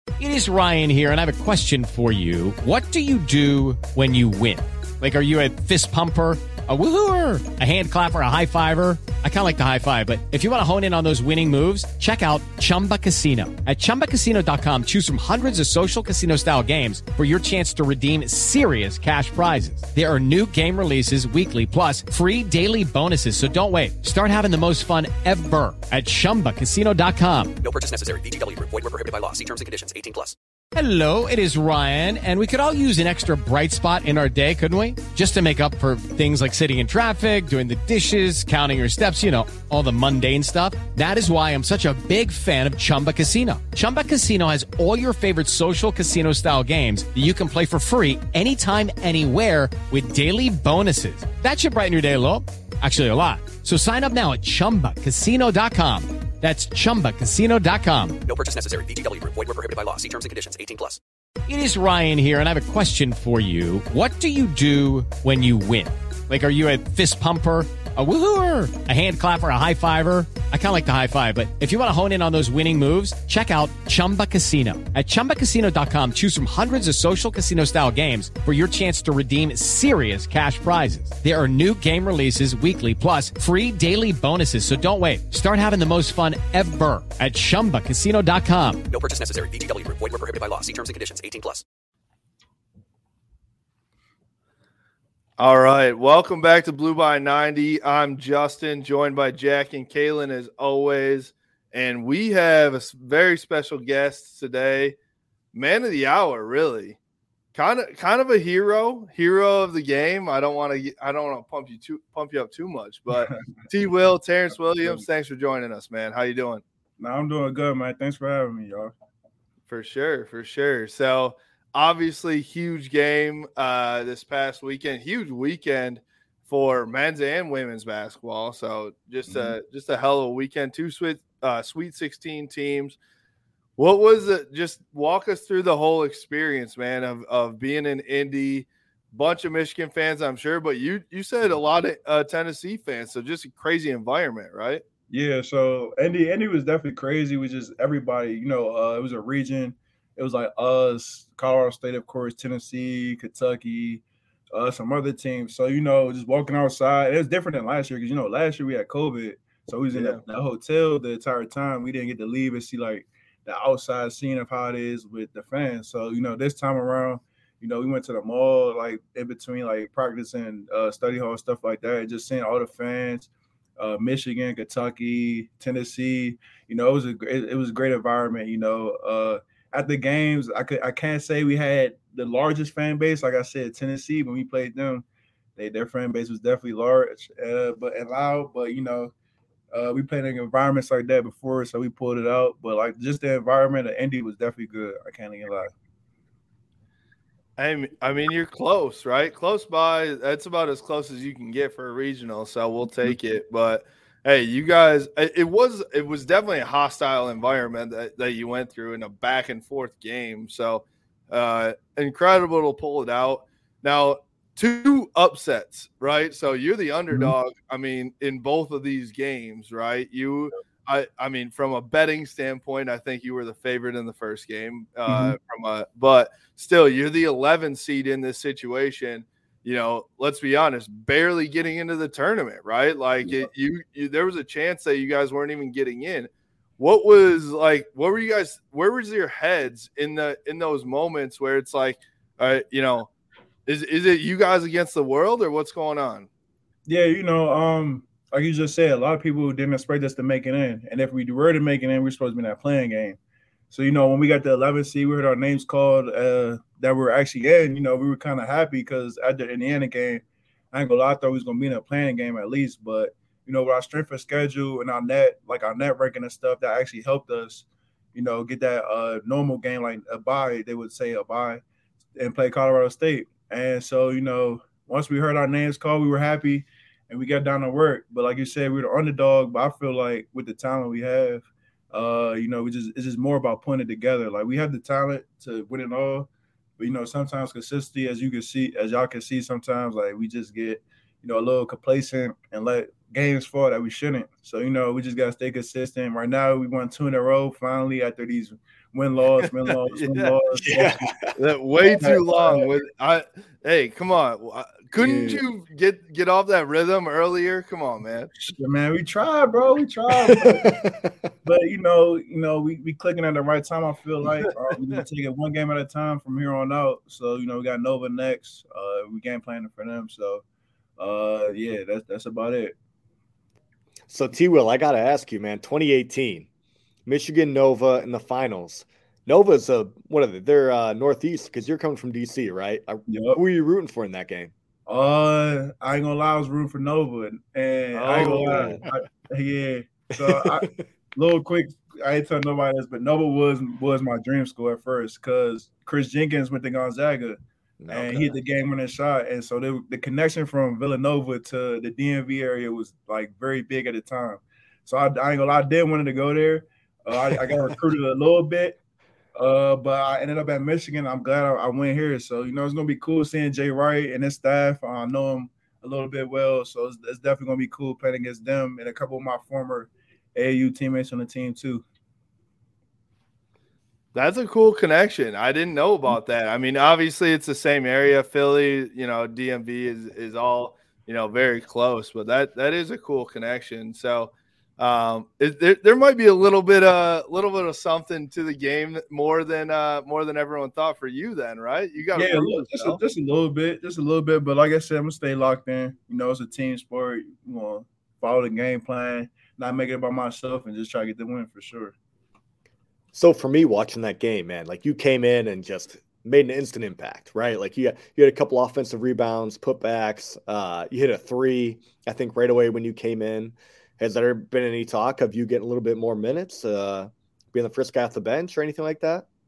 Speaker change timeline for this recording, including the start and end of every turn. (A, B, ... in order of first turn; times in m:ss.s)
0:00.2-0:27.6 A
0:27.6-0:30.4 B
0:30.7-0:58.2 A
0:58.3-1:01.0 B
1:01.5-1:28.8 A
1:28.9-1:31.6 B
1:35.4-1:45.0 C
1:45.5-1:47.0 C
1:47.5-1:56.6 C
1:53.1-1:53.4 D
1:57.0-1:58.9 D
1:59.7-2:13.0 C
2:09.3-2:09.6 D
2:13.8-2:24.8 C
2:25.1-3:05.0 D
2:39.9-2:40.2 C
3:05.6-3:09.1 D
3:09.7-3:15.7 D
3:17.6-4:03.1 C
3:45.1-3:45.4 D
4:03.7-4:06.3 C
4:06.9-4:13.2 D
4:13.7-4:31.6 D
4:32.2-5:01.1 D
4:59.4-5:00.4 C
5:00.7-5:01.3 E
5:01.4-5:08.3 C
5:01.8-5:02.7 D
5:05.0-5:05.4 D
5:08.4-5:10.8 D
5:10.1-5:11.2 E
5:11.4-5:20.4 D
5:21.0-5:22.8 D
5:24.1-5:26.5 E
5:27.1-5:34.5 E
5:33.1-5:33.4 D
5:34.9-5:58.8 D
5:37.9-5:38.8 C
5:38.1-5:38.9 E
5:40.2-5:40.8 E
5:47.8-5:48.4 E
5:59.4-6:11.8 D
6:14.2-6:33.0 C
6:32.2-6:41.9 D
6:43.1-6:59.3 E